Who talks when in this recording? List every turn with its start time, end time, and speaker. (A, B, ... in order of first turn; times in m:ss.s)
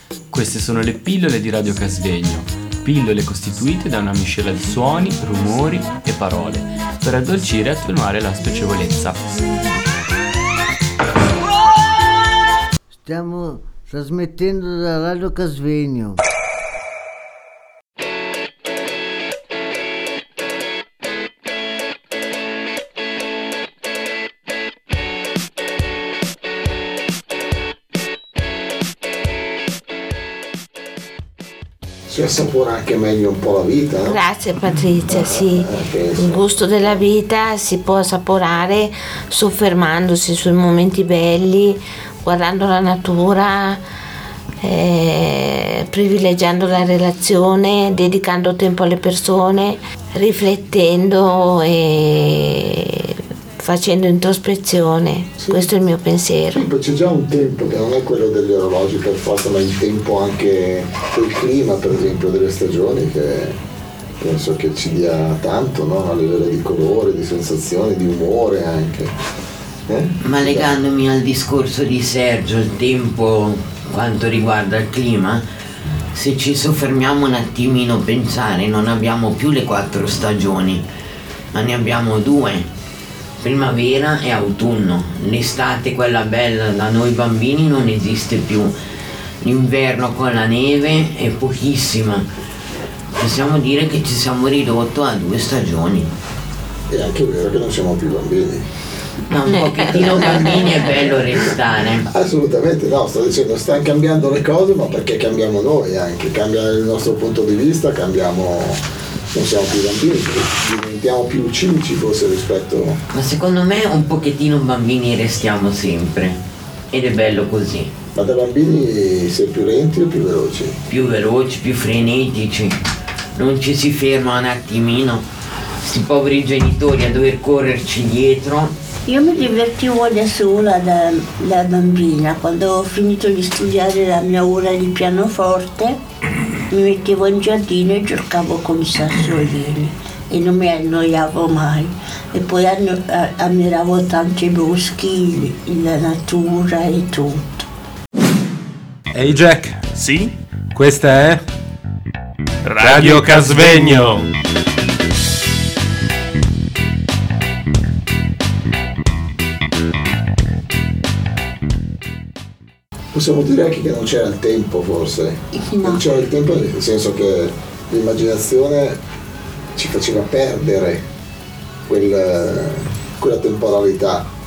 0:00.3-0:09.3 A
0:13.0-0:16.2 B
0:32.1-0:34.2 C
0:34.0-0:43.8 D
0:35.0-0:37.0 C
0:44.6-0:56.6 D
0:55.4-0:55.7 C
0:56.5-1:03.5 C
1:04.2-1:09.1 C
1:09.9-1:10.8 C
1:10.2-1:15.4 E
1:16.1-1:20.8 E
1:21.5-1:22.7 E
1:23.4-1:28.7 E
1:29.4-1:32.3 E
1:33.2-1:36.1 E
1:36.9-1:38.7 C
1:39.3-1:42.1 E
1:40.2-1:40.6 D
1:42.1-1:53.0 C
1:53.1-1:56.4 E
1:56.9-1:57.9 E
1:58.1-2:00.8 C
2:00.9-2:02.8 E
2:03.4-2:05.2 E
2:05.8-2:08.7 E
2:09.1-2:16.0 F
2:16.7-2:27.6 F
2:29.1-2:31.4 G
2:32.6-2:34.3 G
2:43.1-2:49.0 C
2:49.7-2:51.0 C
2:51.9-2:54.3 C